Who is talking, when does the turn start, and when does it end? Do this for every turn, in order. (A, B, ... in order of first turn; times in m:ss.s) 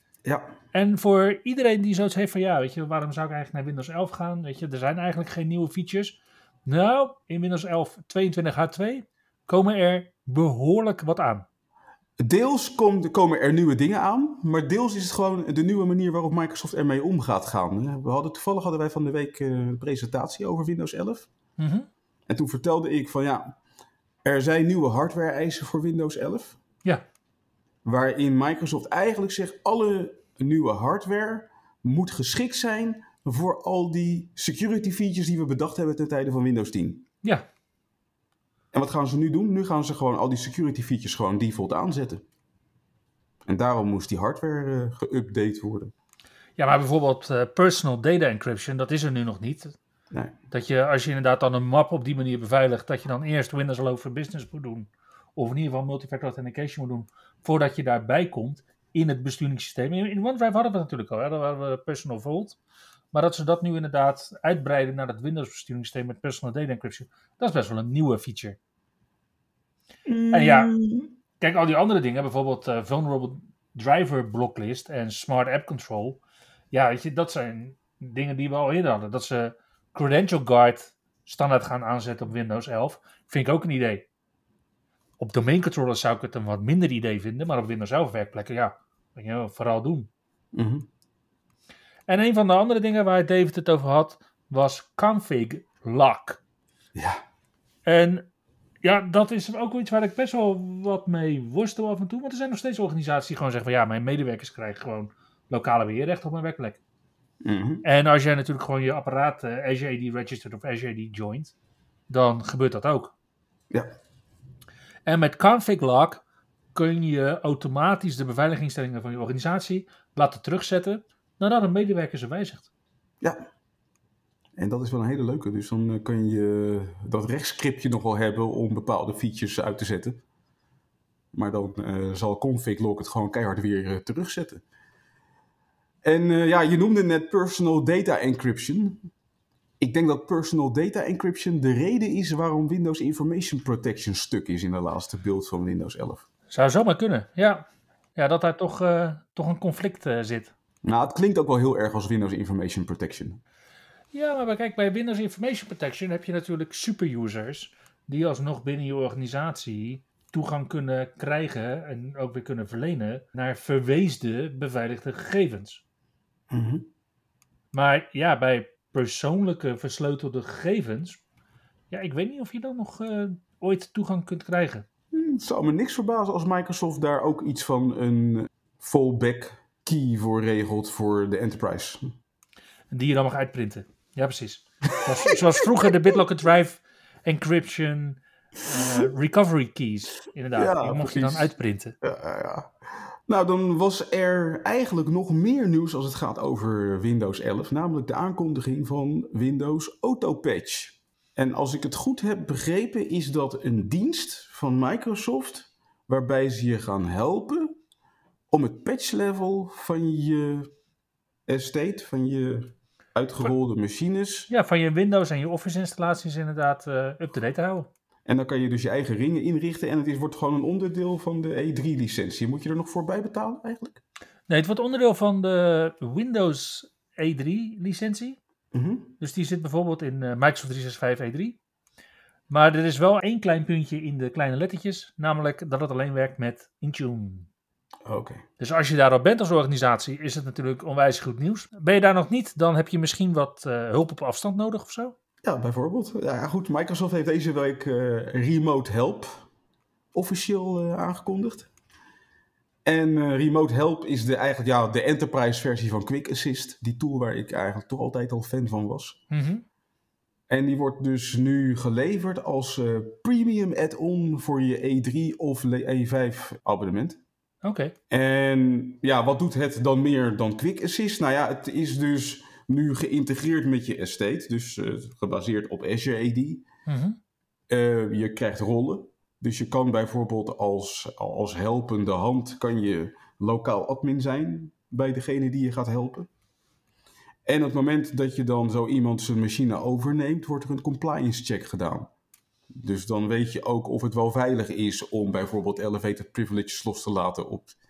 0:00.2-0:00.5 A
0:00.7-0:11.4 B
0:12.2-0:21.3 A
0:21.6-0:21.9 B
0:22.3-0:23.5 A
0:24.2-0:26.6 A
0:27.8-0:37.0 A
0:38.7-0:42.2 A
0:43.4-0:45.9 A
0:46.6-0:49.8 B
0:50.5-1:02.6 B
1:03.1-1:08.6 B
1:10.0-1:11.1 A
1:10.3-1:10.7 B
1:11.4-1:16.2 B
1:16.7-1:24.1 B
1:25.2-1:30.1 B
1:30.5-1:30.9 A
1:32.1-1:36.4 B
1:36.9-1:37.2 A
1:37.8-1:38.2 B
1:38.8-1:46.8 B
1:47.4-1:47.8 A
1:47.8-1:51.5 B
1:52.1-1:53.1 B
1:55.0-1:56.2 B
1:56.7-2:02.7 B
2:03.2-2:03.4 A
2:04.6-2:10.2 A
2:11.3-2:14.6 A
2:16.0-2:19.1 A
2:19.8-2:26.2 A
2:26.5-2:30.5 B
2:30.8-2:33.4 A
2:34.1-2:45.8 B
2:46.5-2:46.9 A
2:47.7-2:51.2 B
2:51.9-2:54.8 B
2:55.1-3:02.1 A
3:02.9-3:12.0 B
3:04.9-3:05.4 A
3:10.5-3:11.5 A
3:12.0-3:12.7 A
3:13.3-3:27.8 A
3:28.5-3:30.7 A
3:31.5-3:34.5 A
3:34.5-3:37.9 B
3:38.2-3:44.0 A
3:44.5-3:48.4 B
3:48.7-3:49.1 A
3:49.2-3:51.6 B
3:52.5-3:57.5 B
3:58.0-3:58.4 A
3:58.6-4:05.2 B
4:05.4-4:09.4 A
4:10.1-4:11.7 A
4:12.8-4:19.2 A
4:19.3-4:19.6 B
4:20.5-4:27.2 A
4:27.6-4:27.9 B
4:28.1-4:36.6 A
4:36.8-4:37.2 B
4:37.7-4:46.3 A
4:47.4-4:52.1 A
4:52.7-4:57.7 A